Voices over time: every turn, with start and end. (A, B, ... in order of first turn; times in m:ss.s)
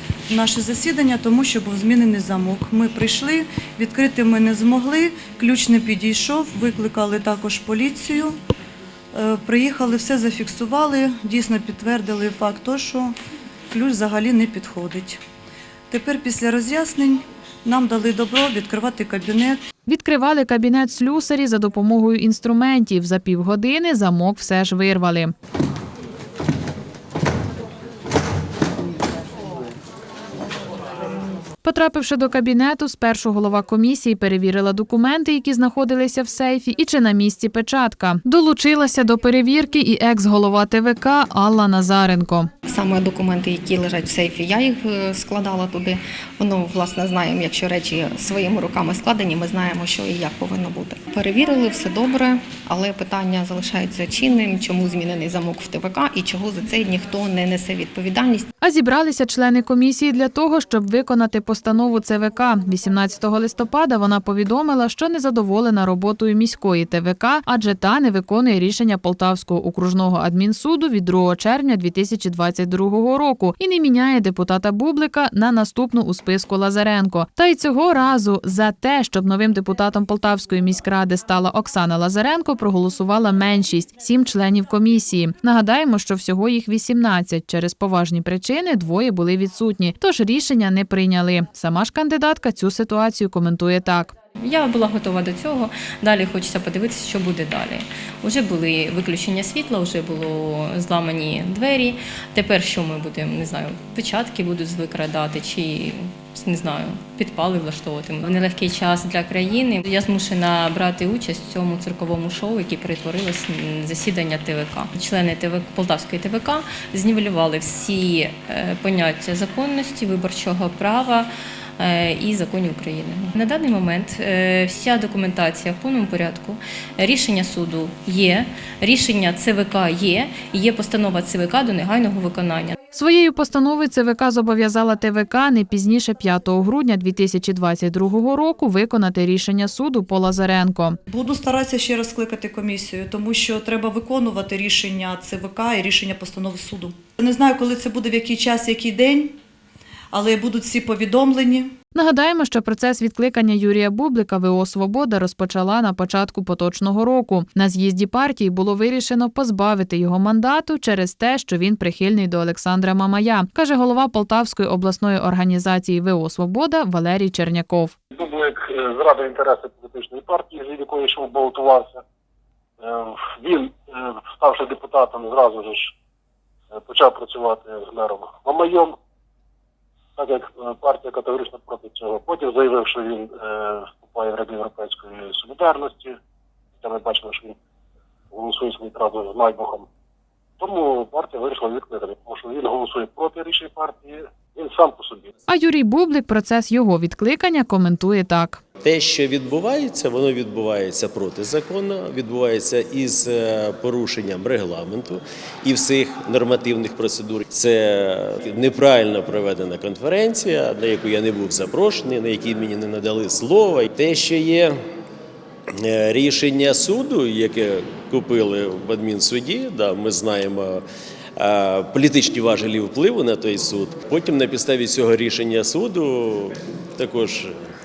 0:00.3-0:08.4 A
0:09.1-0:13.2 A
0:13.7-0:15.2 A
0:15.9-0:19.6 A
0:19.9-0:25.3 B
0:31.6-0:42.5 B
0:42.7-0:58.5 C
0:58.6-1:34.2 B
1:34.4-2:01.3 D
2:01.8-2:12.8 D
2:12.9-2:21.0 B
2:21.1-2:29.4 A
2:30.1-2:31.7 A
2:32.0-2:48.0 B
2:48.2-2:52.0 E
2:52.8-2:55.9 E
2:56.7-2:59.0 E
3:00.2-3:06.2 E
3:06.8-3:07.6 E
3:08.3-3:09.9 E
3:10.6-3:15.3 E
3:15.5-3:18.6 B
3:18.8-3:34.8 F
3:35.7-3:40.8 F
3:41.4-3:47.5 F